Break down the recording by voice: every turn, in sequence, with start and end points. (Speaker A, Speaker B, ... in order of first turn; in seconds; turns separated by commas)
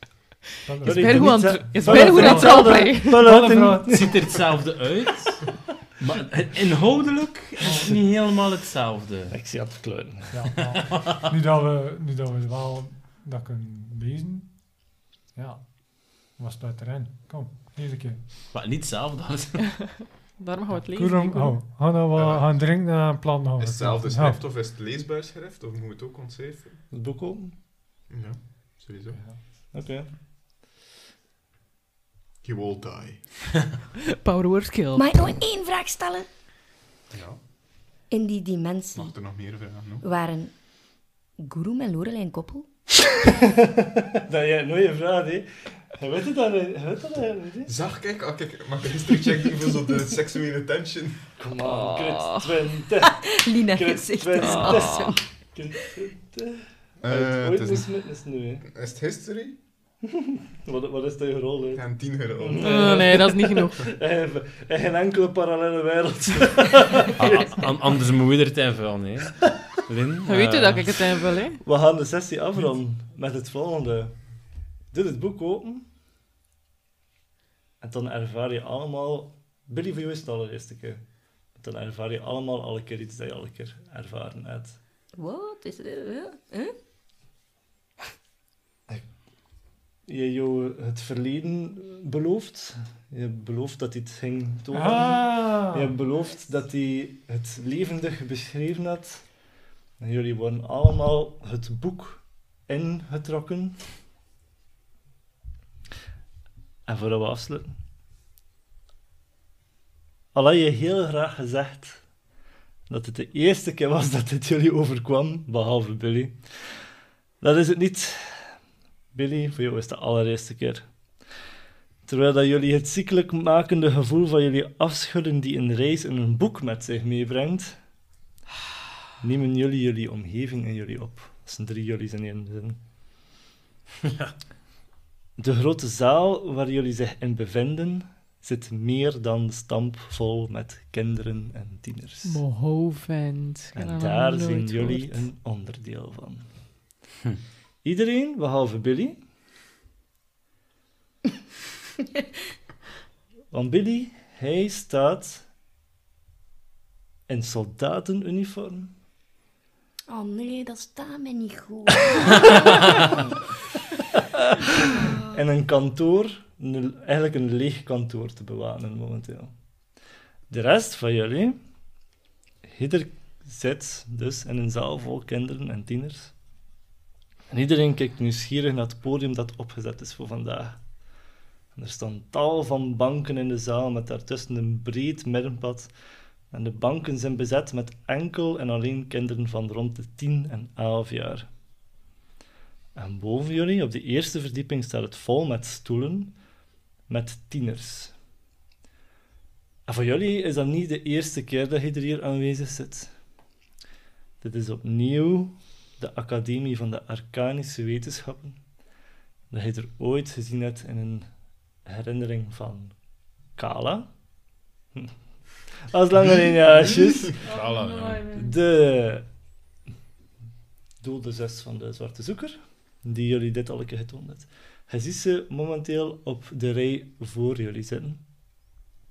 Speaker A: 0.7-4.2, Speaker B: 0.8-3.3, Speaker C: 0.8-4.2, Speaker D: 3.9-9.3, Speaker A: 7.6-8.0, Speaker C: 9.3-10.7, Speaker A: 10.3-18.2, Speaker D: 10.8-11.2, Speaker D: 18.5-20.1, Speaker B: 19.7-21.8, Speaker A: 20.7-24.4, Speaker E: 22.1-22.8, Speaker E: 23.6-26.8, Speaker C: 26.9-27.5, Speaker E: 28.1-29.2, Speaker C: 29.2-30.1, Speaker E: 32.4-33.6, Speaker B: 34.2-35.0, Speaker F: 34.9-36.3, Speaker E: 37.1-37.4, Speaker F: 38.1-39.2, Speaker E: 38.9-40.0, Speaker F: 40.0-42.7, Speaker C: 44.2-47.7, Speaker E: 47.6-51.3, Speaker C: 51.4-58.6, Speaker F: 53.2-55.2, Speaker B: 54.5-54.8, Speaker E: 57.0-57.9, Speaker E: 58.6-59.6, Speaker C: 60.6-67.7, Speaker E: 61.7-62.8, Speaker B: 62.6-63.8, Speaker D: 67.2-71.1, Speaker B: 70.2-71.6, Speaker C: 71.6-74.2, Speaker C: 74.9-75.8, Speaker C: 77.8-84.8, Speaker F: 85.2-86.7, Speaker C: 90.0-99.3, Speaker A: 94.7-95.9, Speaker C: 100.0-103.8, Speaker C: 106.8-107.8, Speaker C: 110.3-112.0, Speaker C: 112.9-116.4, Speaker C: 117.4-118.5, Speaker C: 119.1-120.9, Speaker C: 122.0-127.8, Speaker C: 129.2-132.8, Speaker D: 134.0-134.3, Speaker C: 135.4-142.4, Speaker B: 142.2-145.2, Speaker C: 143.7-146.4, Speaker C: 147.8-149.2, Speaker C: 153.5-155.4, Speaker C: 157.3-158.9, Speaker F: 160.1-163.1, Speaker C: 165.3-169.5, Speaker C: 170.5-171.6, Speaker C: 172.6-176.3, Speaker C: 177.5-180.8, Speaker C: 181.7-185.9, Speaker C: 186.5-191.5, Speaker C: 192.9-196.3, Speaker C: 197.1-198.1, Speaker C: 199.9-203.1, Speaker C: 204.4-208.6, Speaker C: 209.5-211.3, Speaker C: 211.8-212.9, Speaker C: 213.5-214.1, Speaker C: 215.9-217.4, Speaker B: 217.4-218.5, Speaker D: 217.4-218.4, Speaker C: 218.4-219.2, Speaker C: 221.0-228.2